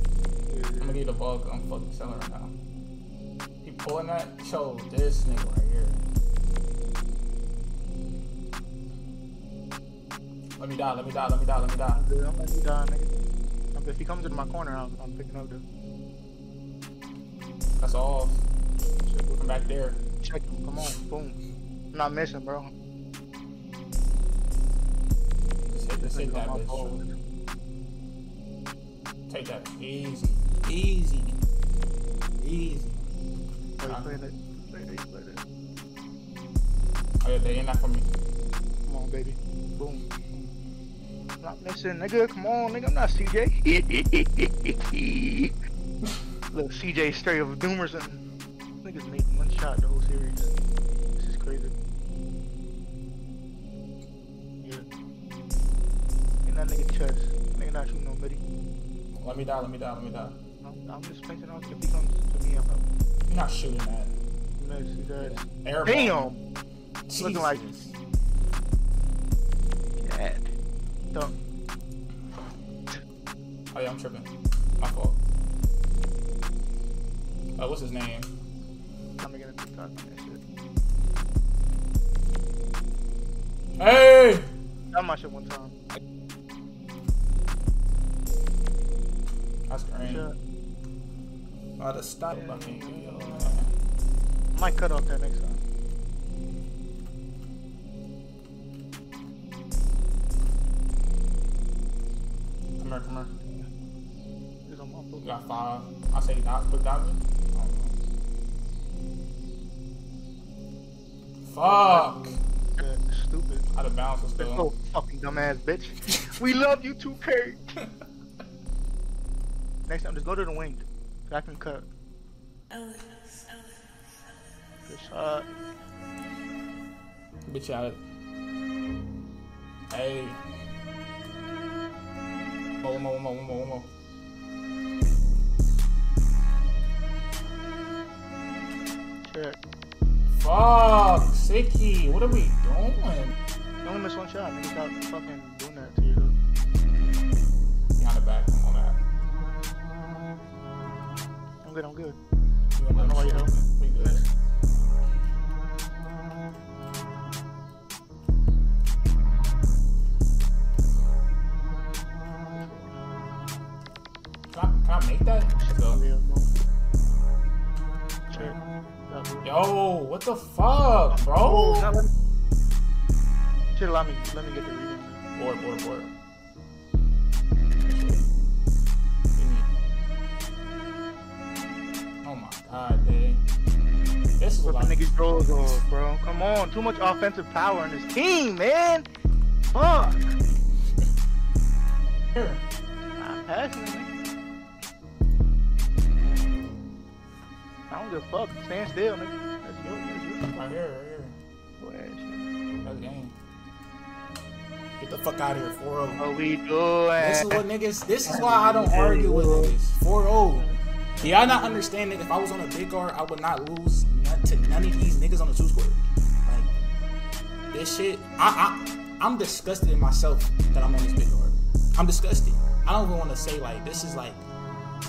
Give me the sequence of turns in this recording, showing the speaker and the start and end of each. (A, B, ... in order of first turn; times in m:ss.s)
0:00.5-0:01.0 A
0:00.8-0:02.5 B
0:03.6-0:06.0 B
0:10.6-0:12.0 B
0:11.9-0:13.1 A
0:13.7-0:15.6 A
0:17.8-0:18.4 B
0:19.0-0:19.6 A
0:19.4-0:20.0 B
0:20.2-0:21.4 A
0:21.9-0:22.7 A
0:25.7-0:27.0 B
0:26.0-0:27.1 A
0:29.3-0:31.4 B
0:32.4-0:33.0 B
0:33.8-0:35.4 A
0:33.8-0:34.2 B
0:37.2-0:38.1 B
0:38.9-0:40.0 A
0:41.4-0:45.5 A
0:46.5-0:48.2 A
0:48.8-0:50.5 A
0:51.2-0:51.7 A
0:56.4-0:58.4 A
0:59.1-1:00.4 B
1:00.6-1:02.8 A
1:03.3-1:04.1 B
1:04.6-1:06.4 A
1:05.2-1:06.4 B
1:07.1-1:07.9 B
1:07.2-1:07.6 A
1:10.0-1:10.5 A
1:13.7-1:15.2 B
1:17.6-1:18.3 B
1:19.2-1:20.4 A
1:23.8-1:24.5 B
1:24.9-1:25.8 A
1:29.7-1:30.2 B
1:30.0-1:30.3 A
1:31.8-1:33.7 B
1:32.3-1:33.6 A
1:34.5-1:35.6 A
1:42.8-1:43.3 B
1:44.6-1:45.4 A
1:45.2-1:47.9 B
1:51.4-1:52.3 B
1:51.6-1:52.2 A
1:52.8-1:53.6 A
1:53.7-1:54.7 B
1:54.4-1:57.8 A
1:59.9-2:01.9 A
2:04.9-2:05.4 A
2:07.5-2:08.0 B
2:09.9-2:10.4 B
2:12.8-2:13.9 B
2:19.2-2:19.6 A
2:20.3-2:23.3 B
2:23.8-2:26.3 A
2:28.0-2:29.0 B
2:31.6-2:32.2 A
2:32.8-2:34.2 B
2:32.9-2:34.2 A
2:42.5-2:43.0 A
2:44.5-2:46.0 B
2:45.6-2:46.5 A
2:48.3-2:49.5 A
2:49.4-2:51.9 B
2:51.1-2:52.1 A
2:53.8-2:55.2 A
2:55.3-2:56.1 B
2:57.8-2:58.2 B
2:59.4-2:59.7 B
3:02.2-3:03.4 B
3:04.4-3:05.1 B
3:04.6-3:09.0 A
3:09.7-3:10.4 A
3:13.2-3:14.1 A
3:17.9-3:20.8 A
3:20.5-3:21.4 B
3:21.8-3:22.5 A
3:22.8-3:23.3 B
3:25.0-3:26.2 B
3:26.2-3:27.6 A
3:27.2-3:36.7 B
3:28.3-3:29.7 A
3:37.7-3:44.4 B